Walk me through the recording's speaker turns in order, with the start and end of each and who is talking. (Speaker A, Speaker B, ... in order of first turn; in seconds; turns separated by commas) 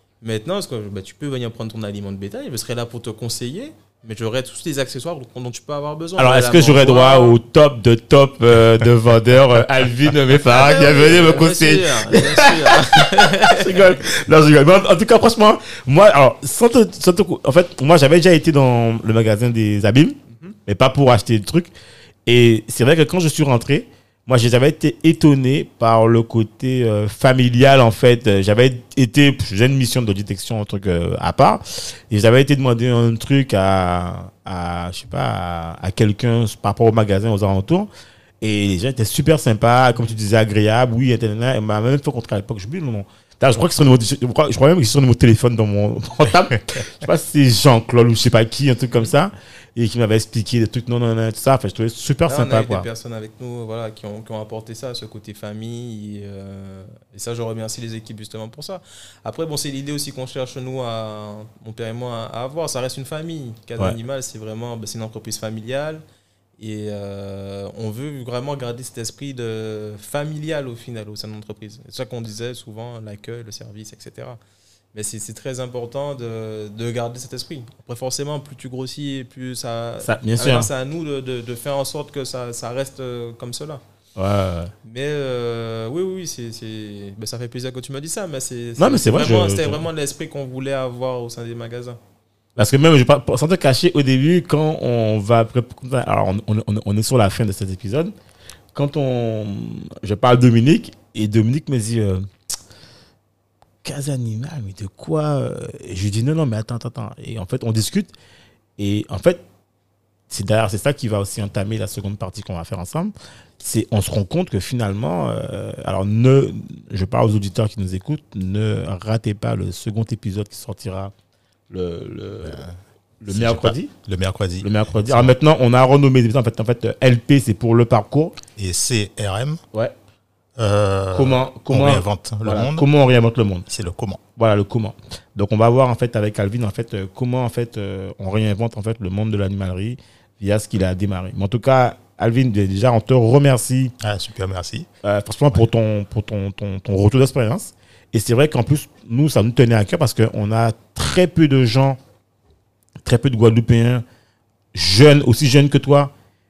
Speaker A: 0.2-7.4, Speaker B: 6.2-21.7, Speaker A: 10.5-13.9, Speaker A: 20.3-20.6, Speaker B: 22.3-37.9, Speaker B: 38.4-52.9, Speaker A: 52.3-66.0, Speaker A: 66.6-74.4, Speaker A: 74.9-83.8, Speaker B: 80.0-80.7, Speaker B: 84.2-84.7, Speaker A: 84.8-92.0, Speaker B: 88.8-89.8, Speaker B: 92.6-98.1, Speaker B: 98.7-102.2, Speaker B: 103.8-108.1, Speaker B: 108.8-109.4, Speaker B: 110.3-121.1, Speaker B: 121.7-122.7, Speaker C: 122.4-122.8, Speaker B: 123.2-123.9, Speaker C: 123.3-125.3, Speaker B: 124.6-128.4, Speaker C: 128.6-129.6, Speaker C: 130.6-132.9, Speaker B: 131.1-133.7, Speaker C: 133.7-134.2, Speaker B: 134.4-143.9, Speaker C: 144.0-144.9, Speaker B: 145.0-152.0, Speaker B: 153.0-154.1, Speaker B: 154.7-156.1